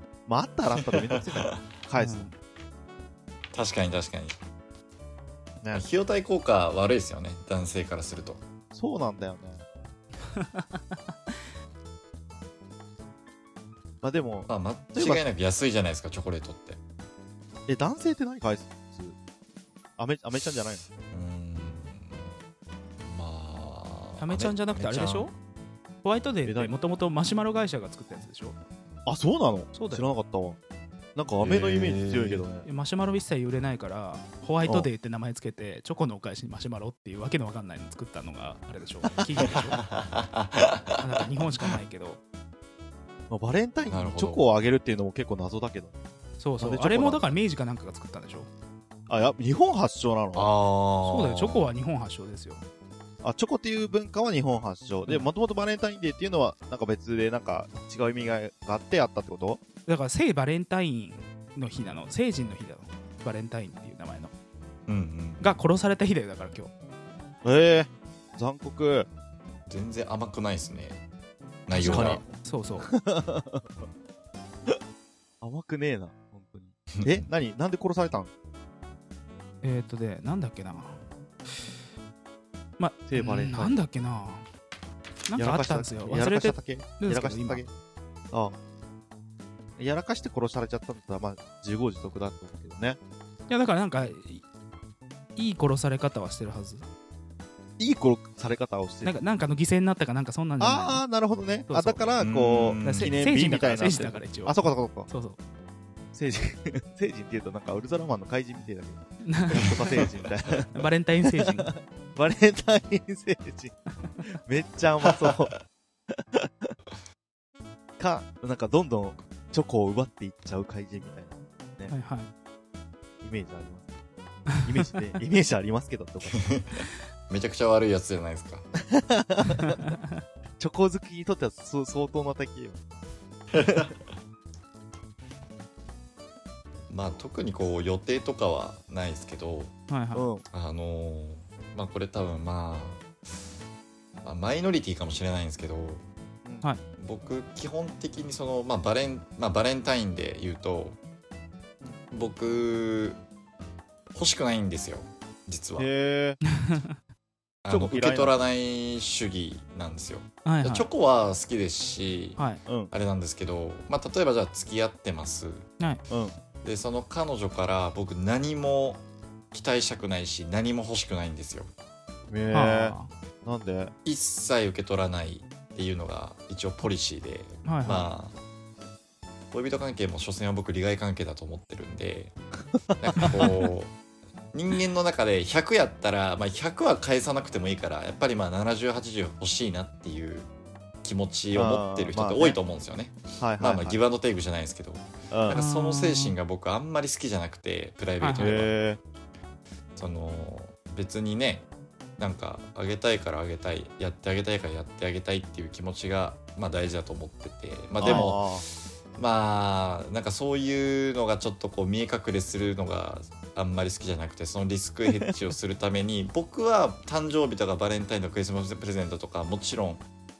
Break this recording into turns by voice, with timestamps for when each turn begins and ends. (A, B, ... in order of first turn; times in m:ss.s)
0:00.3-0:02.3 A
0:02.0-0:02.3 B
0:03.5-0:04.4 C
0:05.7-0:08.4 C
0:08.7-0:09.6 A
0:10.4-0:11.4 B
0:14.0-0:15.2 A
0:14.5-0:16.8 C
0:17.7-0:19.2 A
0:20.0-0:20.9 A
0:21.1-0:22.3 C
0:23.0-0:25.4 C
0:24.2-0:25.3 B
0:26.0-0:28.6 B
0:26.4-0:26.7 A
0:29.1-0:30.6 A
0:29.7-0:30.1 B
0:31.2-0:32.7 A
0:31.4-0:32.4 C
0:32.6-0:39.8 B
0:39.4-0:41.0 C
0:41.0-0:42.2 B
0:43.3-0:46.0 A
0:43.9-0:44.4 C
0:46.4-0:48.5 B
0:46.6-0:47.4 A
0:49.1-0:50.5 A
0:50.4-0:51.7 C
0:51.0-0:52.6 B
0:53.2-0:59.6 A
0:59.9-1:04.3 B
1:04.9-1:05.6 C
1:05.4-1:06.7 B
1:07.4-1:09.1 A
1:09.7-1:11.0 C
1:11.7-1:12.2 C
1:11.7-1:12.9 B
1:11.9-1:12.2 A
1:12.8-1:13.8 A
1:15.4-1:18.3 A
1:16.9-1:17.2 C
1:19.6-1:21.0 B
1:22.8-1:24.4 B
1:23.1-1:23.8 A
1:25.3-1:27.6 B
1:25.4-1:27.7 A
1:28.3-1:28.6 A
1:29.8-1:33.0 A
1:33.5-1:34.4 B
1:35.4-1:36.8 B
1:37.8-1:39.2 A
1:39.0-1:41.0 B
1:40.6-1:45.1 A
1:41.7-1:42.0 B
1:42.2-1:43.2 C
1:42.8-1:44.6 B
1:45.1-1:45.4 B
1:46.1-1:50.7 A
1:49.2-1:49.8 B
1:49.6-1:50.0 C
1:50.7-1:51.7 B
1:51.3-1:53.8 A
1:54.4-1:55.6 A
1:56.1-1:56.8 A
1:58.0-2:01.9 A
2:01.9-2:02.3 B
2:03.2-2:03.9 A
2:04.6-2:06.4 A
2:06.3-2:08.7 C
2:08.9-2:09.8 A
2:09.6-2:10.2 B
2:10.6-2:13.0 A
2:13.5-2:13.9 C
2:13.6-2:13.9 A
2:16.9-2:19.7 C
2:19.9-2:20.2 B
2:20.1-2:20.4 A
2:20.5-2:23.0 C
2:24.2-2:26.0 C
2:27.0-2:31.0 C
2:32.1-2:33.2 C
2:34.1-2:35.9 C
2:35.8-2:36.4 A
2:36.6-2:37.0 B
2:37.6-2:42.4 C
2:37.7-2:38.4 A
2:40.4-2:40.9 B
2:42.7-2:42.9 A
2:42.9-2:45.7 C
2:46.1-2:46.4 A
2:46.6-2:51.7 C
2:52.3-2:53.9 A
2:52.5-2:53.1 B
2:54.0-2:58.4 C
2:57.6-2:58.1 B
2:59.5-3:02.4 C
3:03.0-3:04.0 C
3:03.1-3:03.6 A
3:04.5-3:10.5 C
3:11.0-3:18.7 C
3:11.5-3:12.6 A
3:13.4-3:14.0 A
3:15.3-3:15.6 A
3:15.5-3:16.4 B
3:18.2-3:18.6 B
3:18.4-3:19.0 A
3:20.0-3:21.7 C
3:22.2-3:40.0 C
3:28.0-3:28.6 A
3:28.0-3:28.3 B